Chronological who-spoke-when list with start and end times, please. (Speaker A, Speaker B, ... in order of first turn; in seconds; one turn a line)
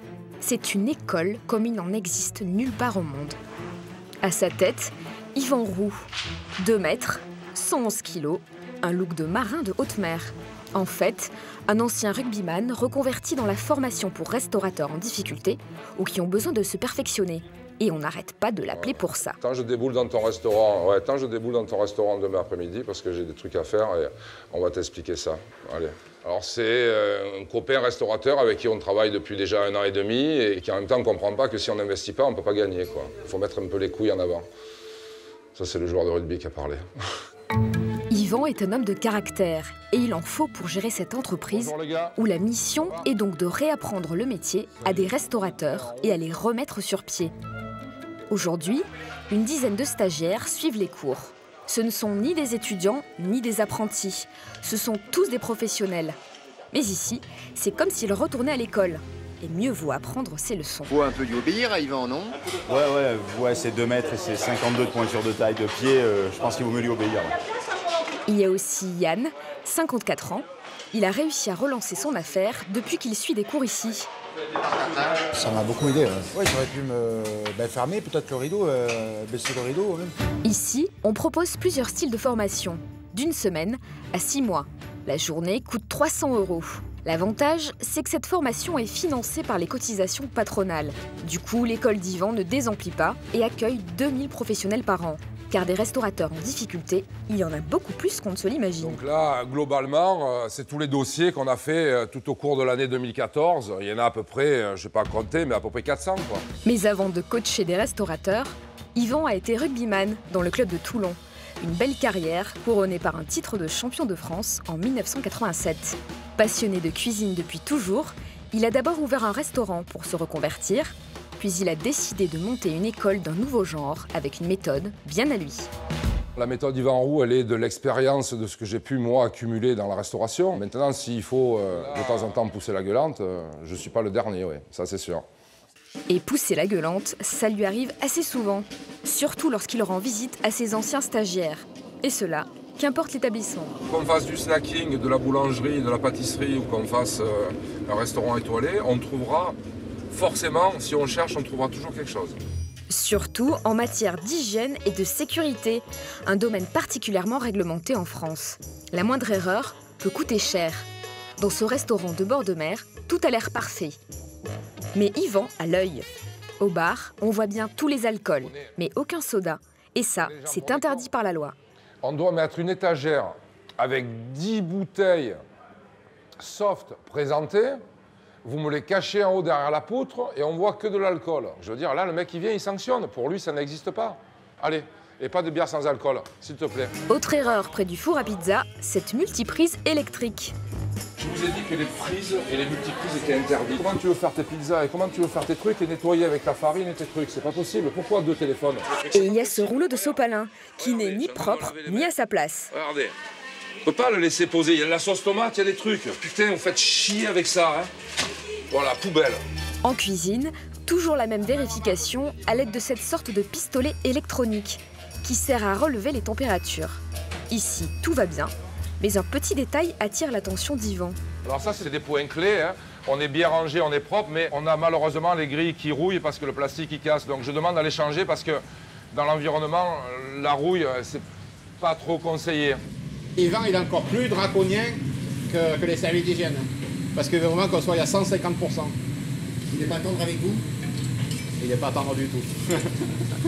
Speaker A: 0.4-3.4
Speaker A: 4.2-6.0
Speaker A: 6.6-19.4
Speaker B: 18.7-34.4
Speaker B: 35.5-36.9
Speaker A: 38.1-47.3
Speaker B: 41.5-42.2
Speaker A: 48.3-56.1
Speaker A: 56.7-61.0
Speaker C: 60.9-62.4
Speaker D: 62.7-67.3
Speaker A: 68.3-74.1
Speaker C: 74.8-75.2
Speaker E: 75.3-80.1
Speaker A: 80.4-99.0
Speaker B: 98.8-106.4
Speaker A: 106.6-125.7
Speaker B: 126.3-135.2
Speaker A: 136.1-143.8
Speaker B: 143.8-149.6
Speaker B: 150.1-152.4
Speaker A: 152.9-164.0
Speaker A: 164.9-166.1
Speaker A: 166.6-171.6
Speaker B: 170.2-171.1
Speaker B: 172.0-175.4
Speaker B: 176.4-177.8
Speaker B: 178.4-186.9
Speaker A: 187.1-190.5
Speaker B: 191.2-199.9
Speaker A: 199.1-202.7
Speaker B: 200.8-202.1
Speaker B: 202.7-203.1
Speaker B: 203.8-207.9
Speaker B: 208.7-209.4
Speaker A: 209.8-221.2
Speaker B: 221.4-228.6
Speaker B: 229.1-231.2
Speaker B: 231.8-232.8
Speaker F: 233.4-238.9
Speaker F: 239.7-240.6
Speaker F: 241.6-242.8